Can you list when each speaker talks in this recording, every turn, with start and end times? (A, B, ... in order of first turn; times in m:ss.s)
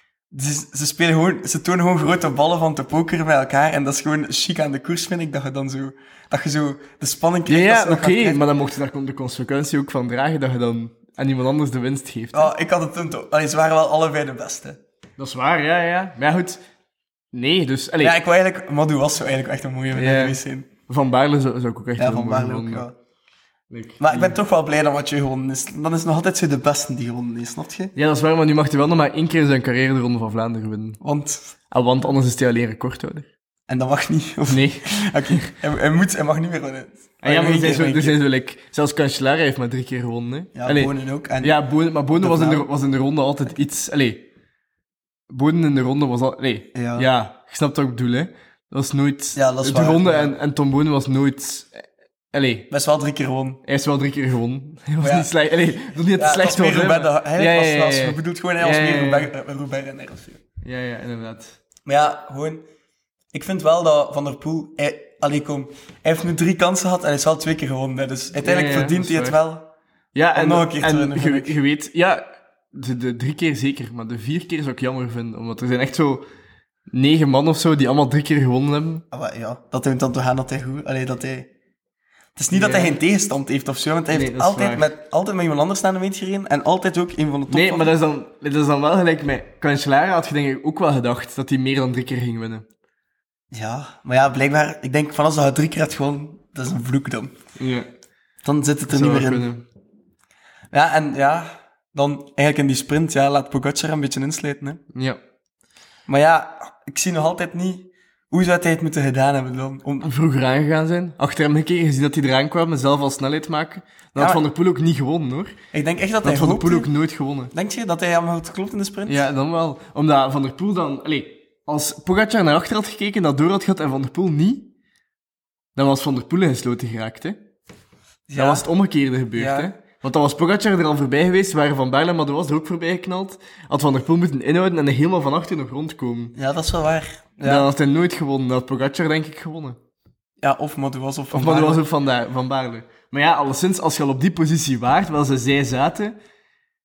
0:00.3-0:08.4 A
0:07.5-0:12.5 B
0:12.3-0:14.8 A
0:15.2-0:16.6 B
0:17.3-0:18.2 B
0:18.0-0:20.7 A
0:19.9-0:22.9 B
0:22.0-0:22.9 A
0:23.7-0:24.3 B
0:24.0-0:27.9 A
0:28.0-0:31.0 B
0:31.0-0:31.5 A
0:31.7-0:33.3 B
0:33.7-0:38.2 A
0:34.5-0:35.5 B
0:37.2-0:44.2 B
0:40.5-0:41.6 A
0:42.2-0:42.7 A
0:45.3-0:52.7 B
0:46.7-0:47.1 A
0:49.4-0:50.3 A
0:52.7-0:53.6 A
0:53.6-0:59.3 B
0:55.0-0:55.3 A
0:56.2-1:00.4 A
1:00.6-1:01.6 B
1:01.8-1:02.6 A
1:03.3-1:09.7 A
1:08.4-1:09.4 B
1:10.1-1:16.2 B
1:10.3-1:11.5 A
1:16.9-1:19.0 B
1:19.1-1:21.5 A
1:22.4-1:27.9 A
1:22.5-1:23.0 B
1:24.1-1:24.9 B
1:27.5-1:32.6 B
1:33.5-1:37.3 A
1:37.6-1:37.9 B
1:38.4-1:39.5 A
1:38.9-1:39.6 B
1:40.7-1:44.8 A
1:44.9-1:45.2 B
1:46.1-1:50.1 A
1:50.0-1:55.5 B
1:54.2-1:54.4 A
1:55.7-1:56.9 A
1:56.2-1:57.5 B
1:57.5-1:59.2 A
1:59.1-2:04.7 B
2:05.8-2:07.4 B
2:08.3-2:08.7 A
2:08.3-2:16.4 B
2:09.3-2:09.7 A
2:16.4-2:17.7 A
2:17.4-2:19.8 B
2:20.4-2:21.8 A
2:21.3-2:26.2 B